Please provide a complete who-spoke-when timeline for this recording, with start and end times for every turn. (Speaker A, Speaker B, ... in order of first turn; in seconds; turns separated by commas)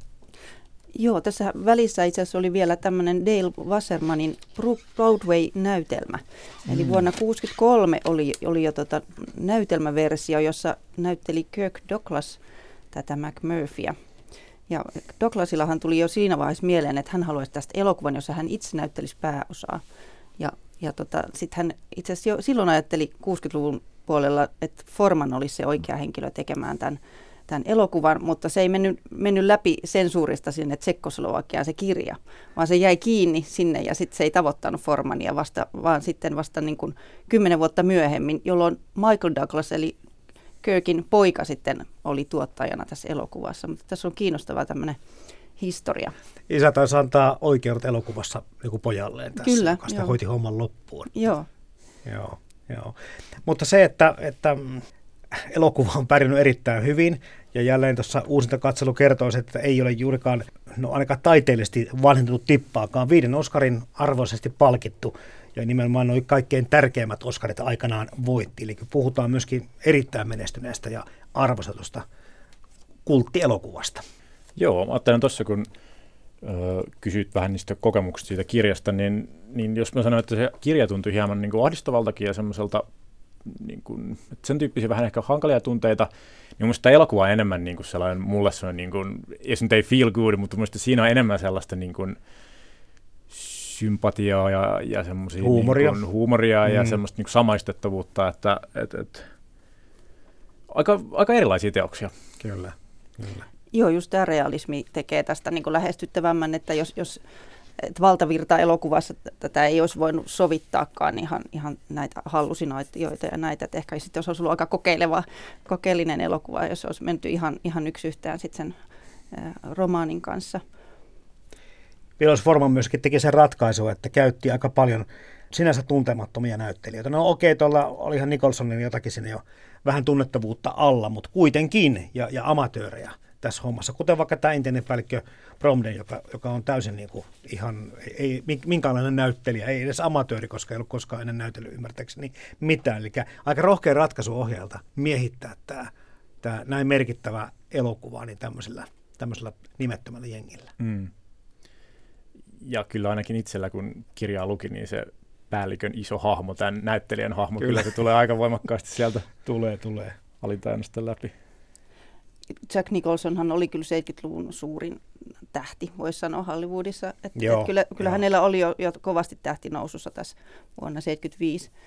Speaker A: 0.9-12.4, Speaker A: 12.9-14.0, Speaker A: 14.7-19.8, Speaker A: 20.4-40.0, Speaker A: 40.6-45.0, Speaker A: 45.6-46.1, Speaker B: 46.5-51.1, Speaker A: 49.4-50.2, Speaker A: 51.1-51.5, Speaker B: 52.0-72.0, Speaker B: 73.0-74.0, Speaker C: 74.6-75.7, Speaker C: 76.4-82.9, Speaker C: 83.5-92.2, Speaker C: 93.3-99.3, Speaker B: 95.4-96.0, Speaker B: 96.7-97.0, Speaker C: 100.7-102.1, Speaker B: 102.4-103.5, Speaker A: 103.7-107.2, Speaker A: 107.8-118.8, Speaker A: 119.3-120.6, Speaker B: 122.2-145.9, Speaker B: 146.4-150.7, Speaker C: 150.8-151.1, Speaker C: 152.6-159.3, Speaker B: 157.6-157.9, Speaker B: 159.4-160.2, Speaker C: 160.4-161.3, Speaker A: 162.7-165.0, Speaker A: 165.5-171.7, Speaker B: 167.4-168.2